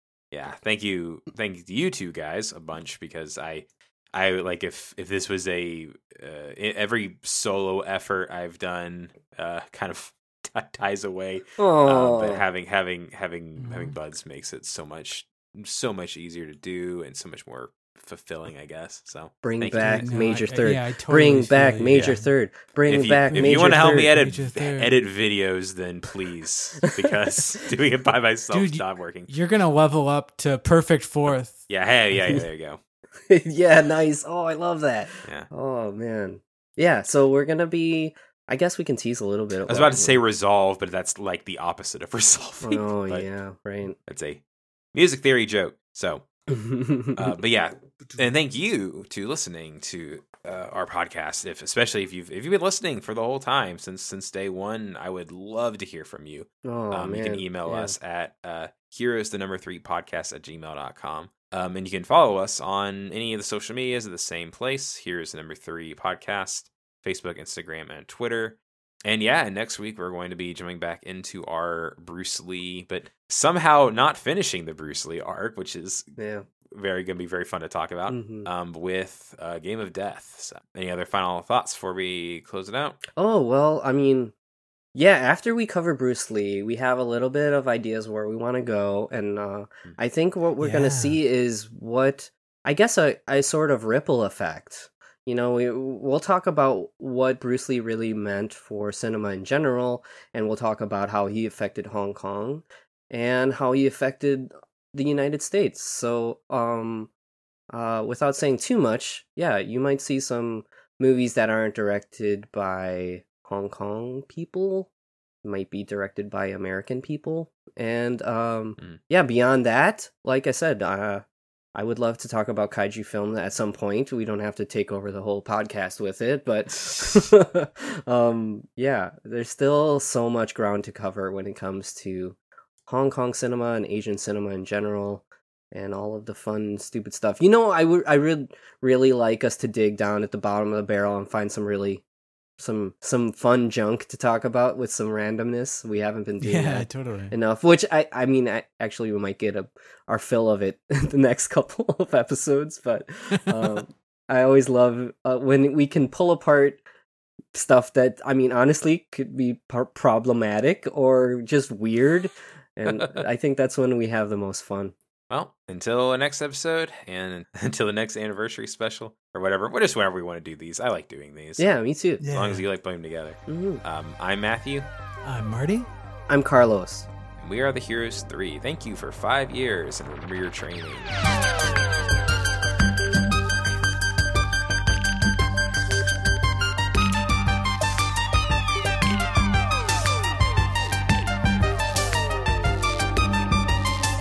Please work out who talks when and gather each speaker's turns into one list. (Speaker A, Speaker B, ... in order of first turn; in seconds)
Speaker A: 0.3-20.1, 21.9-22.2, 22.9-29.3, 31.3-32.8, 39.7-43.3, 44.1-44.4, 44.9-46.2, 47.1-76.1, 76.7-83.0, 165.3-171.7, 172.3-174.9, 177.4-181.1
Speaker B: 11.6-12.4, 19.4-24.1, 33.3-40.2, 42.6-44.0, 46.5-47.3, 56.6-57.9, 76.2-76.5, 78.1-78.5, 83.2-84.3, 84.9-107.1, 107.7-114.9, 115.4-121.2, 121.7-132.3, 132.9-142.0, 142.6-156.8, 157.5-164.9, 171.6-172.2, 173.5-173.8, 176.3-177.1
Speaker C: 13.6-14.0, 19.7-22.3, 23.2-25.0, 28.5-31.6, 90.6-91.2, 146.4-147.3, 172.2-172.7, 175.2-175.9